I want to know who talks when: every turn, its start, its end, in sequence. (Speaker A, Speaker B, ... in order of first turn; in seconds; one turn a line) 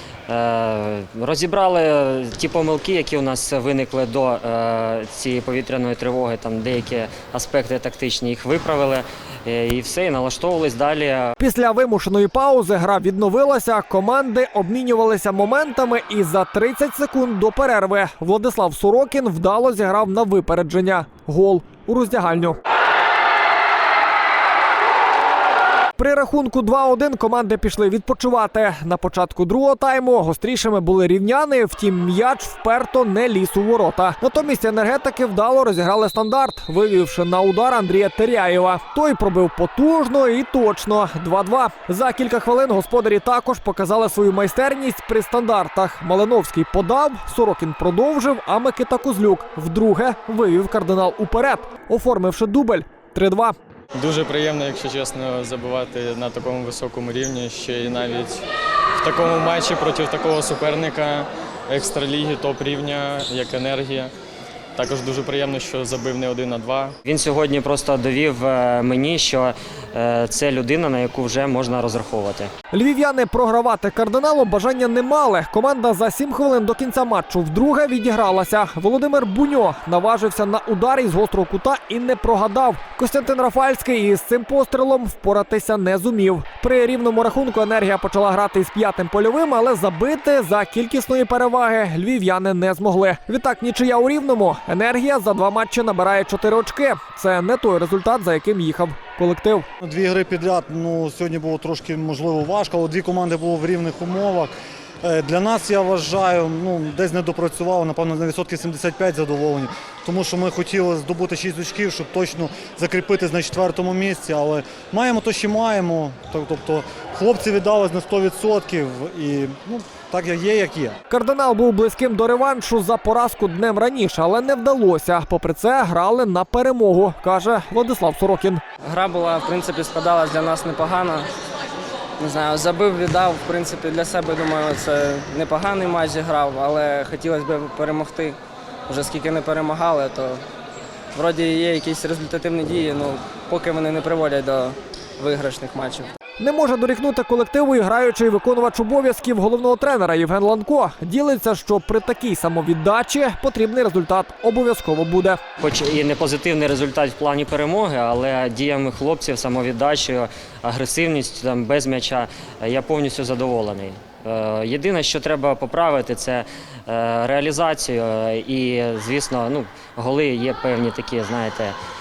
Speaker A: 0.3-11.3
Speaker B: 11.4-22.6
Speaker B: 26.0-53.5
Speaker C: 54.0-58.4
Speaker C: 59.0-64.1
Speaker C: 64.8-66.9
Speaker A: 67.0-72.5
Speaker B: 72.7-99.7
Speaker D: 99.8-121.0
Speaker B: 121.1-128.6
Speaker E: 128.8-131.3
Speaker E: 132.2-140.4
Speaker E: 141.1-146.1
Speaker B: 146.4-155.4
Speaker A: 155.6-171.8